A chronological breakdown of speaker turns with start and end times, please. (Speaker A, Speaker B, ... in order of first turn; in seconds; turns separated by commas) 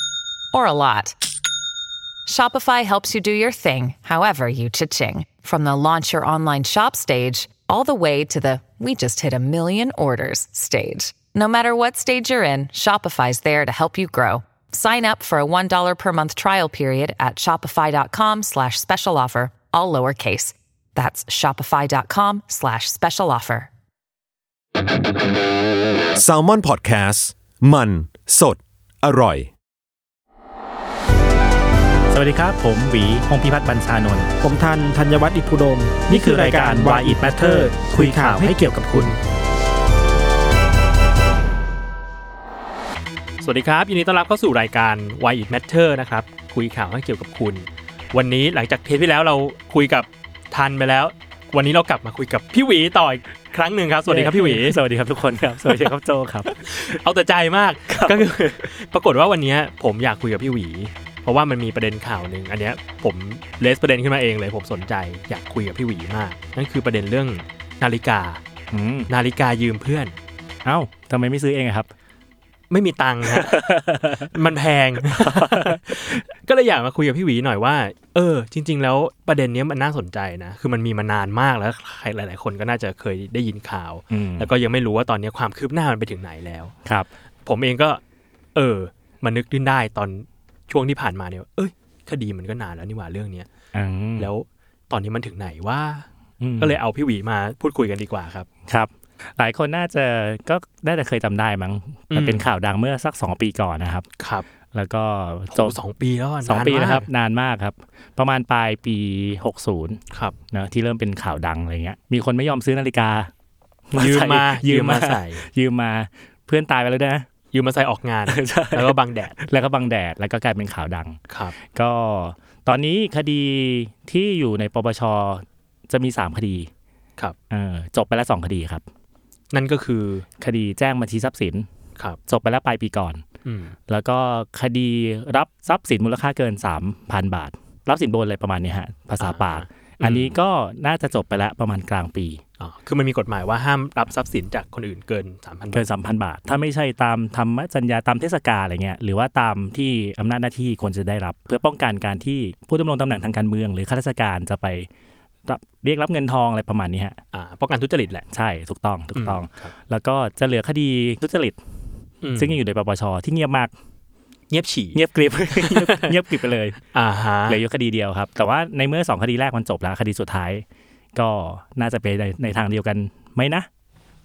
Speaker A: 0.5-1.1, Speaker A: 2.2-23.7, Speaker B: 26.1-29.5, Speaker C: 32.1-34.3, Speaker D: 34.4-38.6, Speaker C: 36.1-39.2, Speaker E: 43.4-54.8, Speaker C: 54.1-56.5, Speaker E: 56.5-68.4, Speaker C: 57.9-58.2, Speaker C: 68.7-69.1, Speaker E: 69.1-70.1, Speaker C: 70.6-71.9, Speaker E: 72.7-86.7, Speaker C: 73.3-74.3, Speaker C: 75.1-76.2, Speaker C: 84.1-84.5, Speaker E: 87.5-88.0, Speaker E: 88.5-93.5, Speaker C: 93.7-94.3, Speaker E: 94.2-96.1, Speaker C: 96.4-96.8, Speaker E: 96.6-98.5, Speaker C: 98.7-104.1, Speaker E: 102.1-102.4, Speaker E: 104.2-104.5, Speaker C: 104.7-105.8, Speaker E: 105.5-107.0, Speaker C: 106.4-110.0, Speaker C: 110.5-113.3, Speaker C: 113.9-117.3, Speaker E: 114.0-115.4, Speaker E: 117.5-119.4, Speaker C: 118.3-126.7, Speaker E: 121.3-121.5, Speaker C: 127.5-128.8, Speaker E: 129.5-130.2, Speaker C: 130.4-131.7, Speaker C: 132.3-133.2, Speaker E: 133.4-133.8, Speaker C: 133.9-142.4, Speaker E: 139.2-140.3, Speaker E: 142.6-145.8, Speaker C: 145.7-154.9, Speaker C: 155.4-157.2, Speaker E: 157.3-158.2, Speaker C: 158.3-161.6, Speaker E: 159.1-159.7, Speaker E: 162.2-162.6, Speaker C: 162.3-163.7, Speaker E: 164.5-166.2, Speaker C: 164.9-166.8, Speaker E: 166.9-167.6, Speaker C: 167.5-170.6, Speaker C: 171.1-173.7